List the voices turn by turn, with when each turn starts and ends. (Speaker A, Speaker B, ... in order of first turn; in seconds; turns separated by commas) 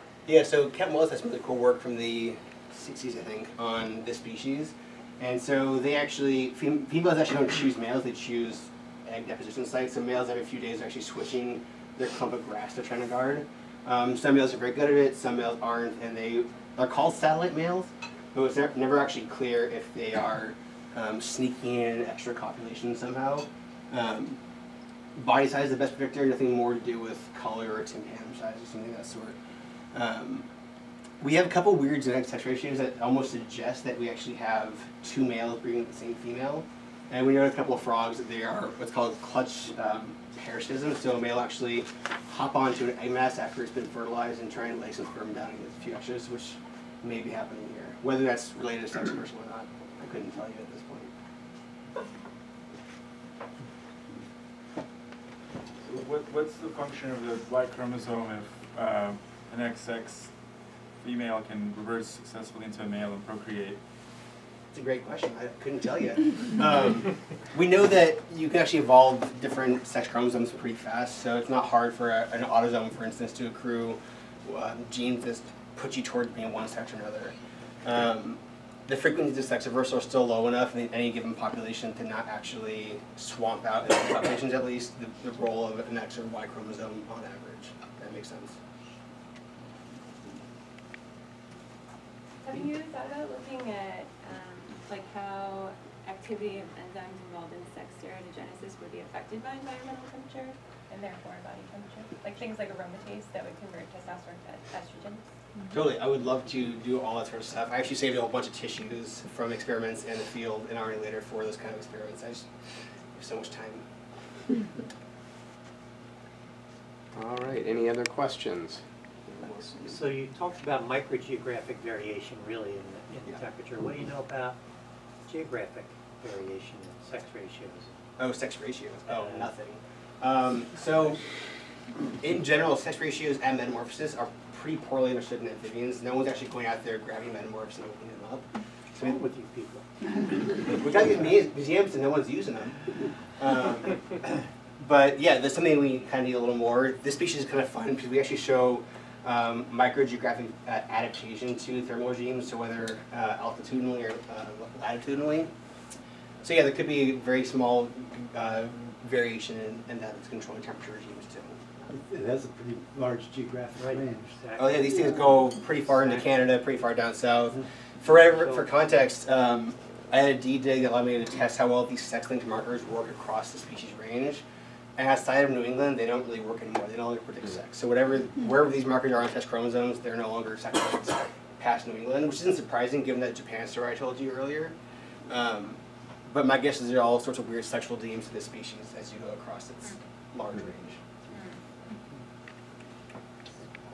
Speaker A: 0.3-24.4, Speaker A: 25.2-29.4, Speaker A: 29.9-30.5, Speaker A: 31.2-51.1, Speaker B: 55.9-60.3, Speaker B: 61.0-63.8, Speaker A: 64.7-88.6, Speaker C: 92.4-105.7, Speaker A: 105.7-112.5, Speaker A: 113.2-113.8, Speaker D: 117.2-118.8, Speaker D: 119.3-119.9, Speaker E: 119.8-124.6, Speaker E: 125.3-128.0, Speaker A: 128.2-131.2, Speaker E: 129.1-129.5, Speaker A: 132.2-138.5, Speaker E: 138.9-139.9, Speaker A: 140.8-142.8, Speaker A: 143.4-155.5, Speaker A: 156.4-161.5, Speaker F: 161.9-164.3, Speaker E: 163.8-166.3, Speaker A: 164.6-174.4, Speaker E: 168.3-168.7, Speaker A: 175.0-184.8, Speaker A: 185.3-191.0